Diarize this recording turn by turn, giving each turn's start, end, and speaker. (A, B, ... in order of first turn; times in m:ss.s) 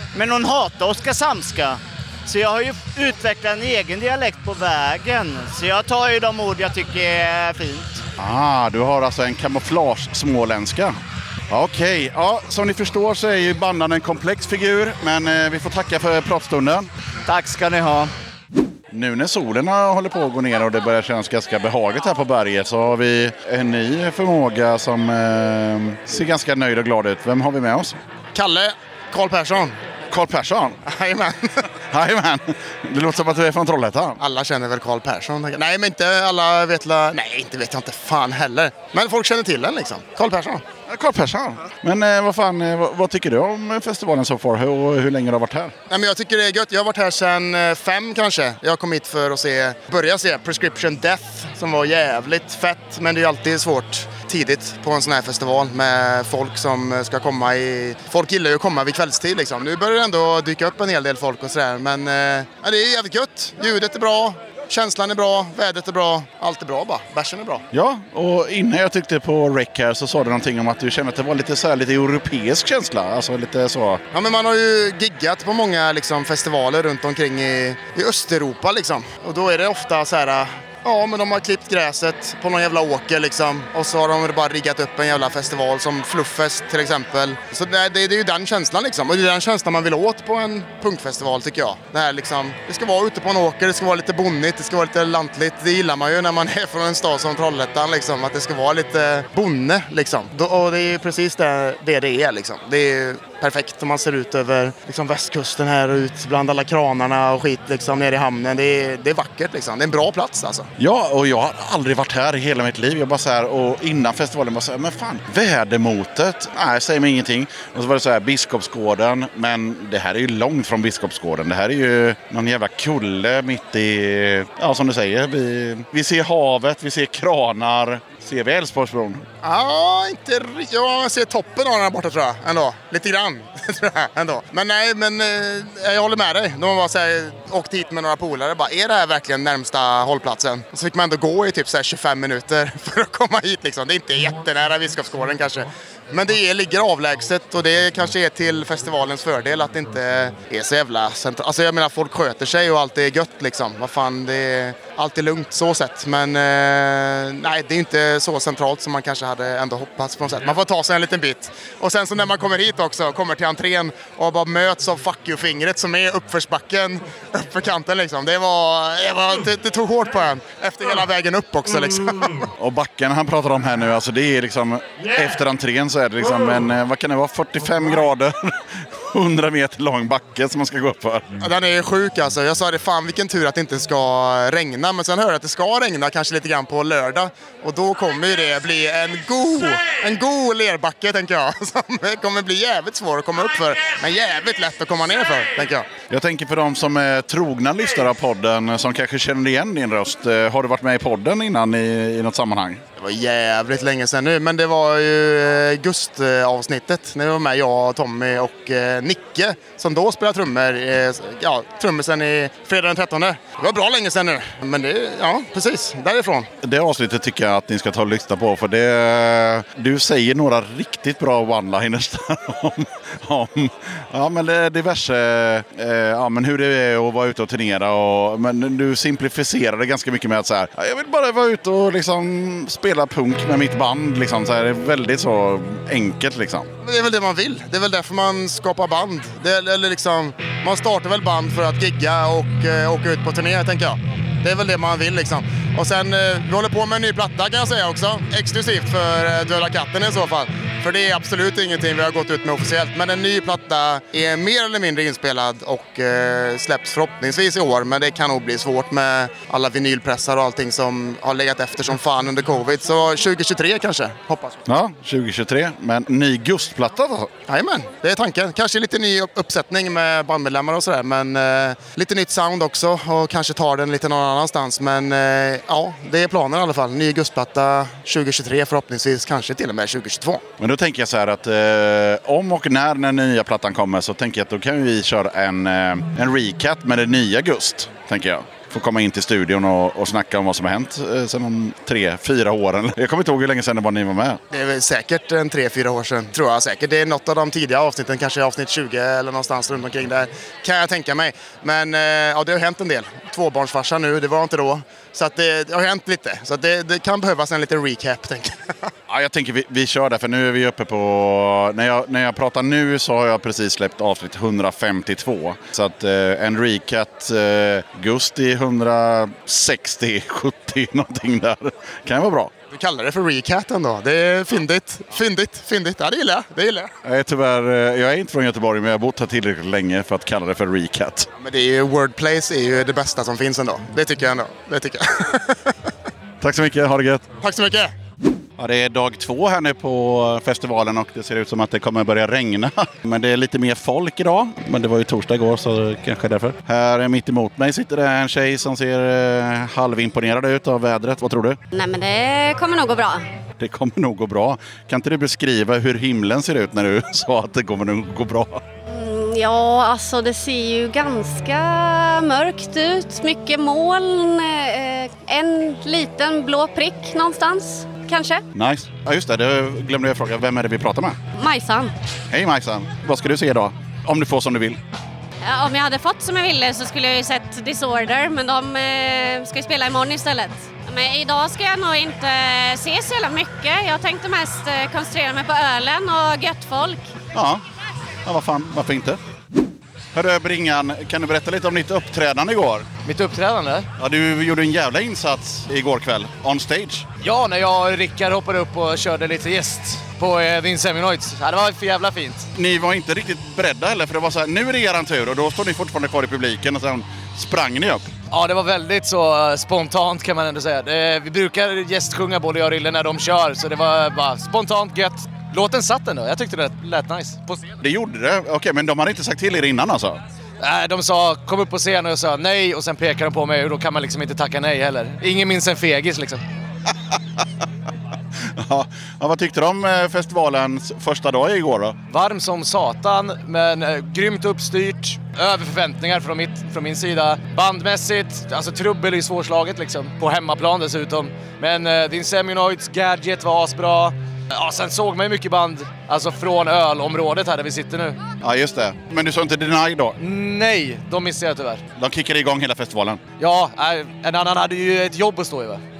0:00.1-0:08.0 A
0:08.2-0:11.0 B
0:11.5-0:16.9 B
0:17.2-0:18.1 A
0:18.9-0:28.0 B
0:28.3-0:29.8 C
0:30.1-0:30.8 B
0:30.8-0:31.6 C
0:31.9-0:34.2 B
0:34.2-0:40.6 C
0:40.9-0:45.7 B
0:45.9-1:07.6 C
1:07.7-1:14.0 B
1:14.1-1:50.7 C
1:50.8-2:09.2 B
2:09.4-2:52.5 C
2:52.6-3:01.4 B
3:01.4-3:15.9 C
3:16.1-3:22.8 B
3:23.0-3:36.5 C
3:36.6-3:56.7 B
3:56.8-4:24.6 C
4:24.7-4:27.3 B
4:27.5-4:40.4 C
4:40.6-4:54.4 B
4:54.5-5:08.8 C
5:09.1-5:22.5 B
5:22.7-5:26.9 C
5:27.0-5:31.3 B
5:31.4-5:35.9 C
5:36.4-5:37.3 B
5:37.4-5:37.9 C
5:38.6-5:51.6 B
5:51.7-5:53.2 D
5:53.6-5:58.6 B
5:58.9-6:08.4 D
6:08.5-6:11.2 B
6:11.4-6:11.9 D
6:12.3-6:14.8 B
6:15.4-6:27.1 D
6:27.3-6:27.6 B
6:28.2-6:29.2 B
6:30.1-6:32.9 B
6:33.0-6:33.9 E
6:34.0-6:37.0 B
6:37.2-6:42.5 E
6:42.5-6:48.1 B
6:48.3-6:57.6 E
6:57.8-7:00.2 B
7:00.6-7:06.4 E
7:08.5-7:12.0 B
7:12.1-7:28.2 E
7:28.4-7:30.2 B
7:30.2-7:31.8 E
7:32.0-7:33.2 B
7:33.4-7:35.8 E